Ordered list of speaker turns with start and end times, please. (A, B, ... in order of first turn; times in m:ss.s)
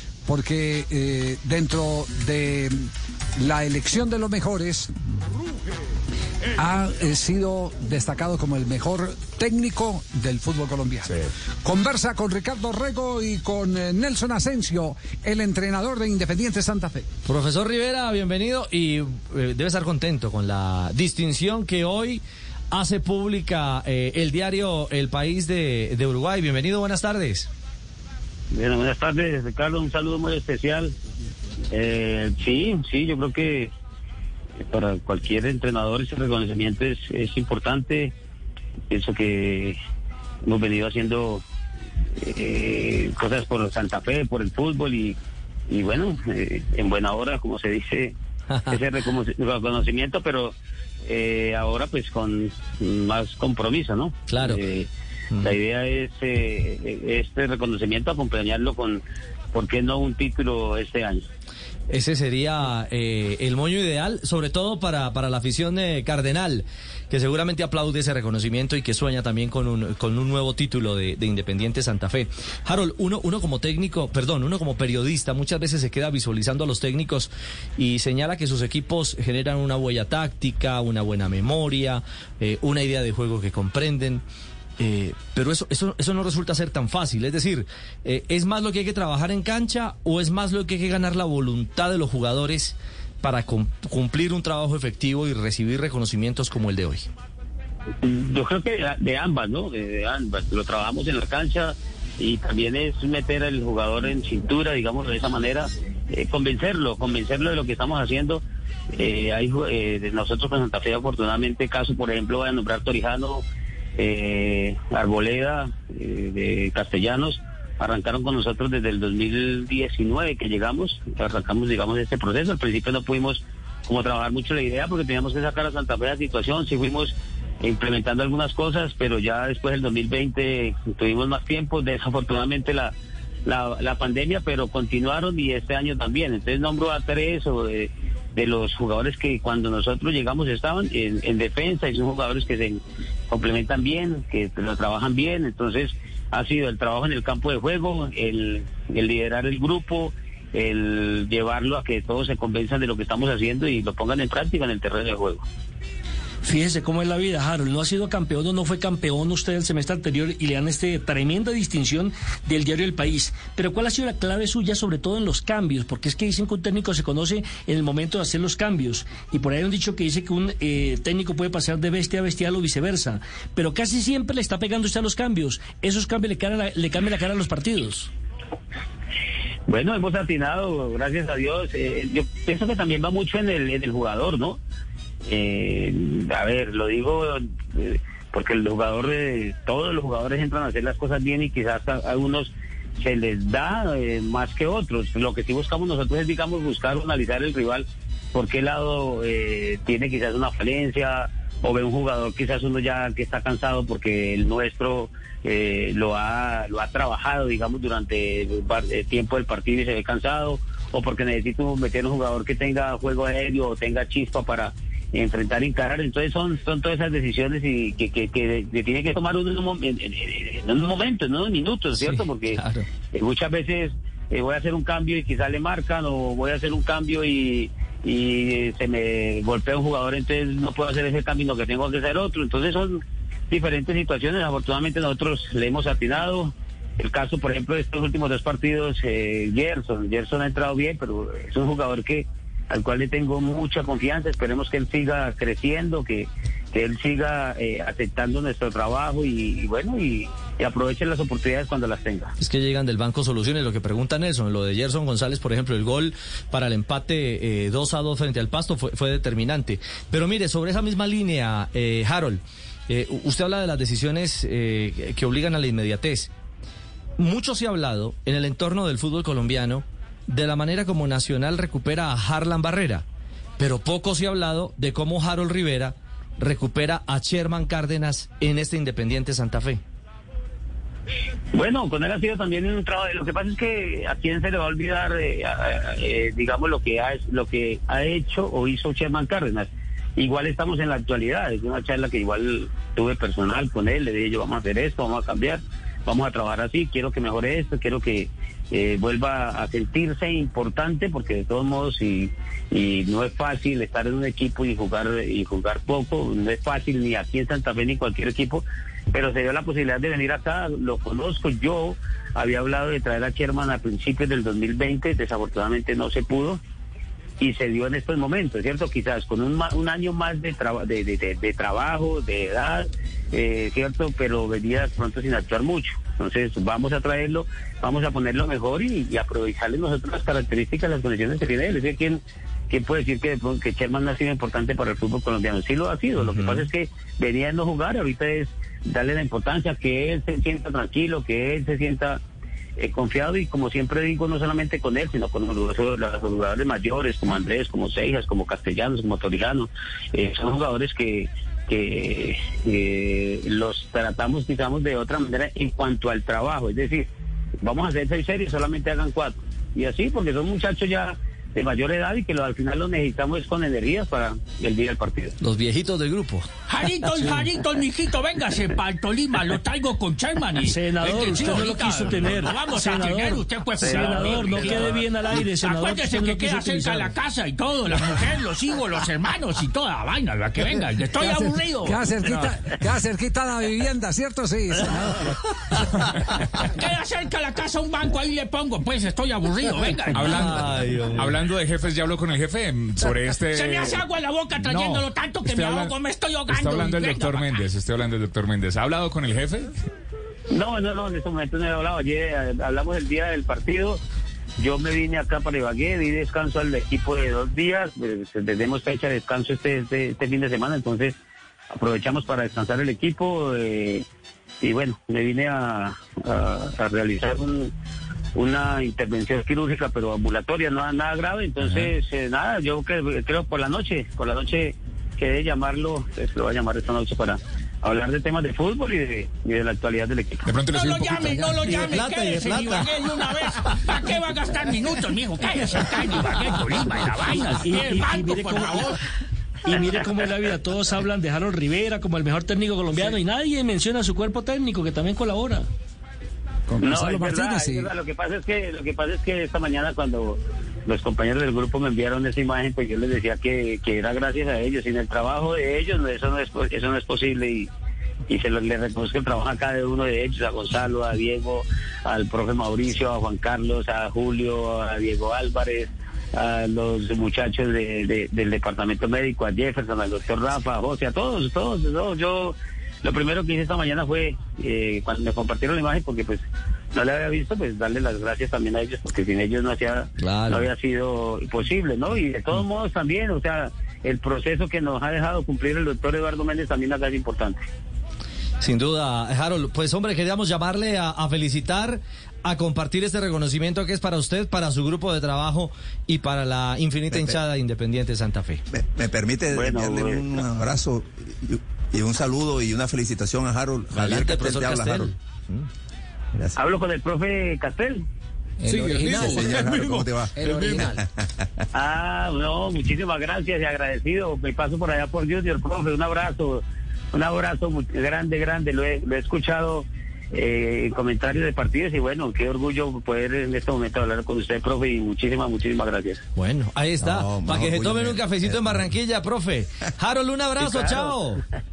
0:00.3-0:02.8 A
0:03.4-0:04.9 A
0:06.6-0:17.1 A
0:17.3-0:27.5 B
0:28.5-0:30.9 C
0:31.7-0:33.7 C
0:34.7-0:38.1 C
0:38.9-0:39.8 C
0:40.4-0:41.4 C
0:42.2-0:45.2 C
0:45.7-0:48.1 C
0:48.7-0:50.5 C
0:51.0-0:54.9 C
0:54.3-0:54.6 B
0:55.4-0:59.0 C
0:59.5-1:01.2 C
1:01.9-1:24.2 B
1:24.8-1:37.1 B
1:38.0-1:53.4 C
1:54.0-2:12.9 C
2:13.5-2:35.4 C
2:36.4-2:58.1 D
2:59.7-3:04.6 C
3:05.3-3:42.6 C
3:42.0-3:42.9 B
3:43.1-3:53.0 C
3:53.5-4:12.3 C
4:12.4-4:26.3 B
4:27.2-4:33.0 B
4:33.6-4:39.8 B
4:41.5-5:16.6 C
5:17.4-5:42.2 C
5:36.2-5:36.7 B
5:42.8-5:57.1 C
5:57.6-6:05.4 C
6:05.4-6:06.5 B
6:06.7-6:22.5 E
6:07.2-6:07.5 D
6:10.6-6:17.2 D
6:13.8-6:15.2 C
6:21.2-6:25.3 A
6:26.0-6:26.4 F
6:26.7-6:30.6 E
6:30.1-6:34.0 F
6:30.3-6:31.4 B
6:33.5-6:37.6 E
6:34.6-6:36.0 F
6:36.5-6:39.7 F
6:40.5-6:44.0 C
6:44.6-6:51.2 C
6:51.7-6:54.0 C
6:54.6-6:57.7 C
6:58.4-7:10.5 C
7:10.4-7:11.7 F
7:10.7-7:19.0 E
7:11.6-7:13.3 B
7:17.4-7:19.0 D
7:19.6-7:25.7 D
7:26.7-7:27.9 A
7:26.8-7:37.7 C
7:38.3-8:07.6 C
8:00.2-8:00.7 B
8:08.6-8:18.6 B
8:17.1-8:17.4 G
8:18.7-8:25.1 G
8:19.5-8:20.4 C
8:23.9-8:25.7 B
8:26.6-8:28.0 C
8:28.6-8:31.0 A
8:28.7-8:31.5 G
8:31.7-8:46.2 C
8:46.4-8:51.4 B
8:47.0-8:48.9 G
8:50.6-8:51.4 C